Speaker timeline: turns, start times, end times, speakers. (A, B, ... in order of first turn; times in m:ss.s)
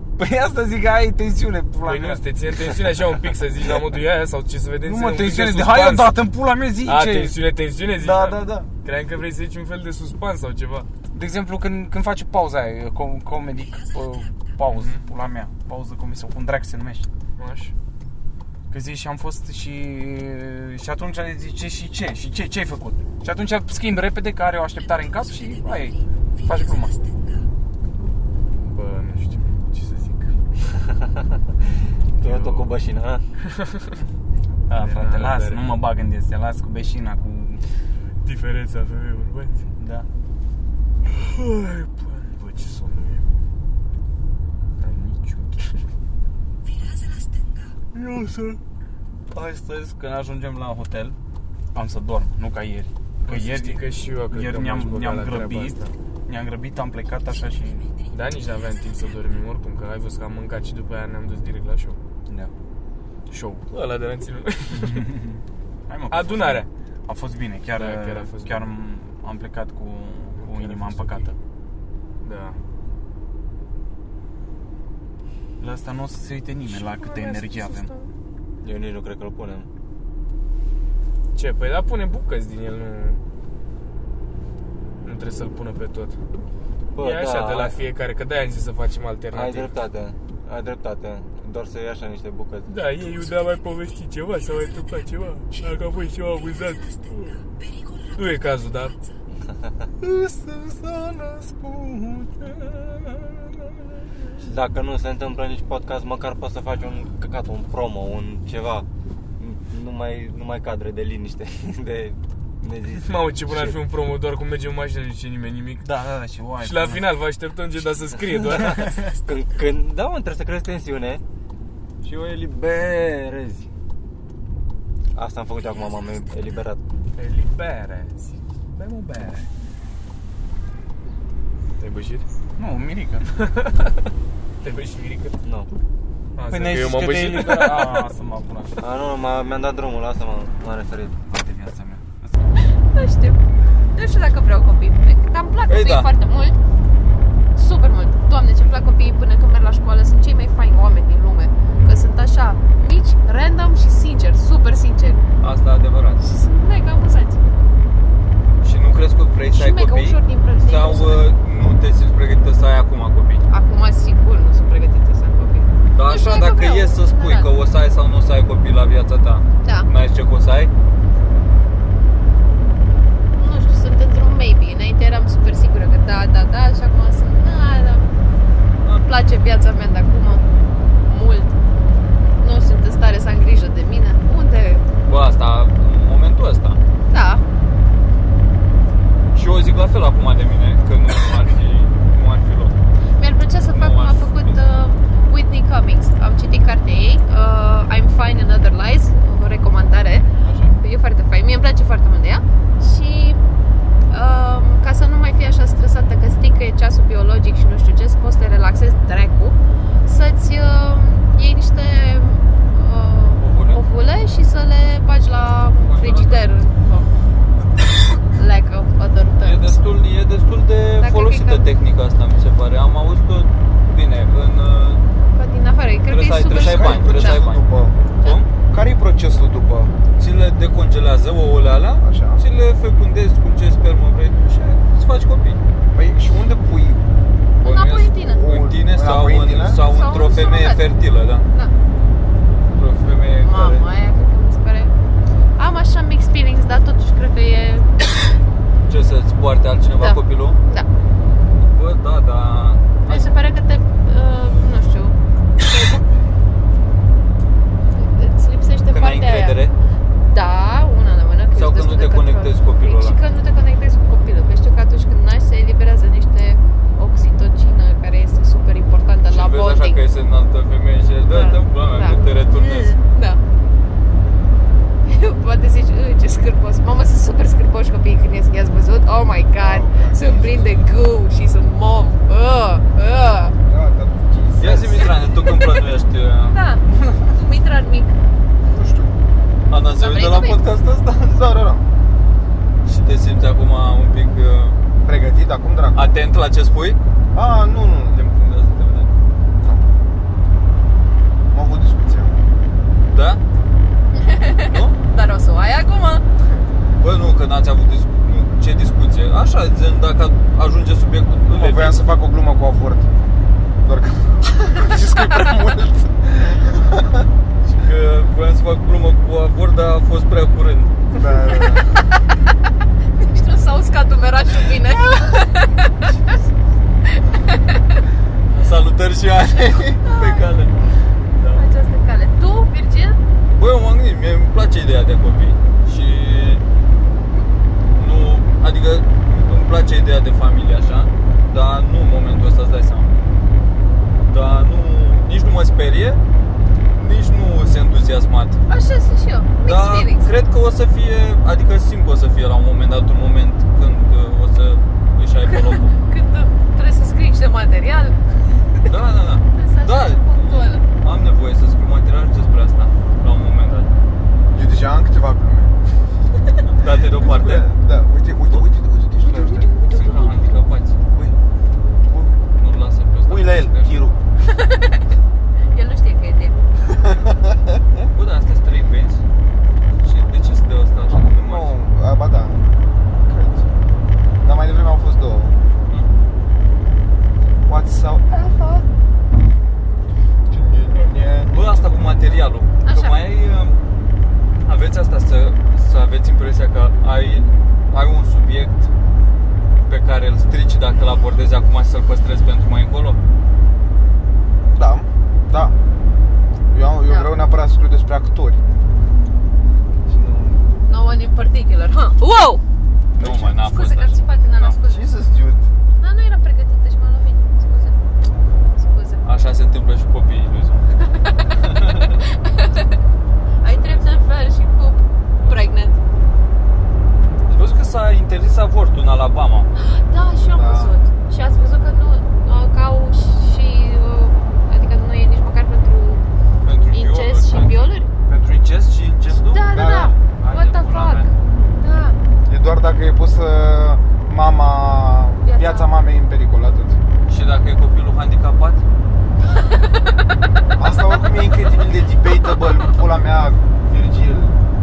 0:00.2-0:02.2 A
0:01.8-0:06.2 B
0:04.8-0:07.4 A
0:06.8-0:10.9 B
0:08.0-0:08.7 A
0:11.1-0:17.1 A
0:14.7-0:15.0 B
0:17.4-0:17.7 B
0:18.7-0:27.0 A
0:28.6-0:30.4 B
0:30.8-0:33.2 C
0:32.2-0:32.7 B
0:33.4-0:34.0 B
0:34.7-0:37.6 A
0:34.8-0:35.7 B
0:38.2-0:39.7 B
0:39.8-0:40.1 A
0:41.0-0:43.3 B
0:44.8-0:45.8 B
0:47.9-0:48.6 A
0:49.3-0:51.2 A
0:51.7-0:57.9 A
0:53.2-0:55.9 B
0:58.1-1:02.0 B
1:03.3-1:05.2 B
1:04.7-1:11.4 A
1:06.1-1:06.7 B
1:07.8-1:08.8 B
1:10.3-1:11.3 B
1:12.2-1:12.6 B
1:15.6-1:17.9 A
1:16.7-1:18.1 B
1:18.6-1:19.7 C
1:21.4-1:23.2 B
1:25.0-1:26.2 B
1:27.0-1:27.8 C
1:27.0-1:29.8 B
1:29.3-1:32.7 C
1:32.7-1:37.4 B
1:38.2-1:39.0 B
1:40.0-1:43.1 A
1:44.4-1:48.9 C
1:49.4-1:53.8 C
1:53.0-1:55.9 B
1:55.8-1:57.1 A
1:56.6-1:59.0 B
1:58.3-2:01.2 C
2:02.0-2:03.7 C
2:05.2-2:06.8 C
2:07.2-2:09.5 B
2:11.8-2:12.3 B
2:12.6-2:13.3 A
2:13.4-2:15.4 B
2:16.4-2:18.1 B
2:16.5-2:18.8 A
2:18.8-2:21.2 C
2:21.3-2:22.4 A
2:22.7-2:23.4 D
2:23.9-2:26.6 D
2:25.7-2:26.1 E
2:27.6-2:35.2 D
2:35.4-2:36.2 E
2:36.2-2:37.4 D
2:38.6-2:43.4 E
2:39.5-2:41.3 D
2:43.5-2:47.5 D
2:45.9-2:50.7 E
2:49.6-2:49.9 D
2:53.4-2:58.1 D
2:59.0-3:00.4 D
3:01.1-3:01.5 D
3:02.4-3:04.8 D
3:05.1-3:06.8 E
3:07.1-3:07.4 D
3:09.3-3:12.8 E
3:13.2-3:20.3 D
3:13.7-3:14.6 E
3:20.8-3:23.4 D
3:24.1-3:37.1 D
3:33.4-3:33.8 E
3:35.8-3:36.4 E
3:38.2-3:39.8 D
3:39.4-3:45.0 E
3:41.0-3:41.7 D
3:45.3-3:47.4 D
3:46.1-3:47.6 E
3:46.6-3:48.0 F
3:48.2-3:48.5 E
3:48.6-3:50.0 F
3:50.2-3:55.6 E
3:52.0-3:52.4 F
3:55.9-3:57.1 F
3:57.6-3:58.4 D
3:57.6-4:01.4 E
3:58.2-3:59.8 F
3:59.8-4:00.8 D
4:02.8-4:03.8 E
4:03.4-4:04.9 D
4:05.6-4:08.3 D
4:08.9-4:10.6 E
4:10.0-4:10.9 D
4:11.7-4:13.3 E
4:13.1-4:15.2 D
4:15.7-4:16.0 D
4:18.0-4:19.6 D
4:18.9-4:19.7 E
4:20.3-4:30.0 D
4:21.6-4:23.2 E
4:29.3-4:33.0 E
4:31.3-4:33.4 D
4:35.0-4:43.6 D
4:39.6-4:40.7 F
4:43.7-4:45.1 F
4:44.6-4:46.6 E
4:45.0-4:45.8 D
4:46.5-4:48.2 D
4:48.6-4:49.2 F
4:49.7-4:51.5 E
4:50.0-4:50.6 D
4:51.3-4:51.9 F
4:52.8-4:54.8 E
4:55.0-4:56.2 F
4:56.0-4:57.0 E
4:57.3-4:58.2 F
4:58.1-4:59.1 E
5:01.5-5:02.4 F
5:03.1-5:03.4 E
5:04.1-5:06.3 D
5:04.6-5:05.0 E
5:07.0-5:12.0 E
5:11.5-5:13.1 F
5:13.8-5:17.3 F
5:17.6-5:20.9 E
5:21.1-5:22.0 F
5:23.2-5:26.1 D
5:27.1-5:27.8 D
5:28.5-5:30.8 E
5:30.0-5:30.5 D
5:31.4-5:31.7 E
5:31.5-5:33.2 D
5:33.6-5:36.6 E
5:38.0-5:43.1 E
5:44.3-5:46.2 E
5:47.0-5:48.6 E
5:48.7-5:50.3 D
5:49.6-5:55.9 E
5:55.5-5:58.2 D
5:58.9-6:03.9 E
5:59.5-6:00.8 D
6:04.5-6:05.8 F
6:06.7-6:07.7 E
6:06.8-6:09.7 F
6:09.2-6:10.6 D
6:09.8-6:11.0 E
6:12.1-6:12.4 F
6:12.6-6:14.0 E
6:13.3-6:14.2 F
6:14.4-6:15.1 D
6:15.7-6:16.6 D
6:16.9-6:18.1 F
6:18.2-6:19.2 E
6:20.0-6:21.8 E
6:21.2-6:22.7 F
6:23.2-6:23.7 F
6:24.4-6:25.6 F
6:27.7-6:28.8 F
6:30.5-6:32.0 F
6:31.5-6:33.8 E
6:32.8-6:33.2 D
6:34.6-6:38.9 E
6:39.9-6:43.2 E
6:44.8-6:45.8 F
6:46.7-6:48.6 F
6:47.0-6:47.4 D
6:50.1-6:50.6 F
6:50.9-6:52.6 D
6:53.2-6:53.6 F
6:53.2-6:54.8 E
6:53.6-6:55.1 D
6:54.8-6:55.7 F
6:56.0-6:58.0 D
6:58.8-6:59.3 D
6:59.2-7:00.8 E
7:01.1-7:01.6 D
7:01.6-7:02.2 E
7:02.2-7:03.0 D
7:03.6-7:06.0 D
7:03.6-7:04.1 E
7:05.4-7:05.7 E
7:07.5-7:09.7 E
7:09.8-7:16.2 D
7:10.4-7:11.0 F
7:16.6-7:19.6 E
7:16.9-7:18.1 D
7:19.4-7:22.2 D
7:19.7-7:20.2 F
7:20.4-7:21.3 E
7:22.5-7:27.0 F
7:25.4-7:25.9 D
7:27.3-7:28.8 E
7:29.8-7:30.1 D
7:30.8-7:34.6 F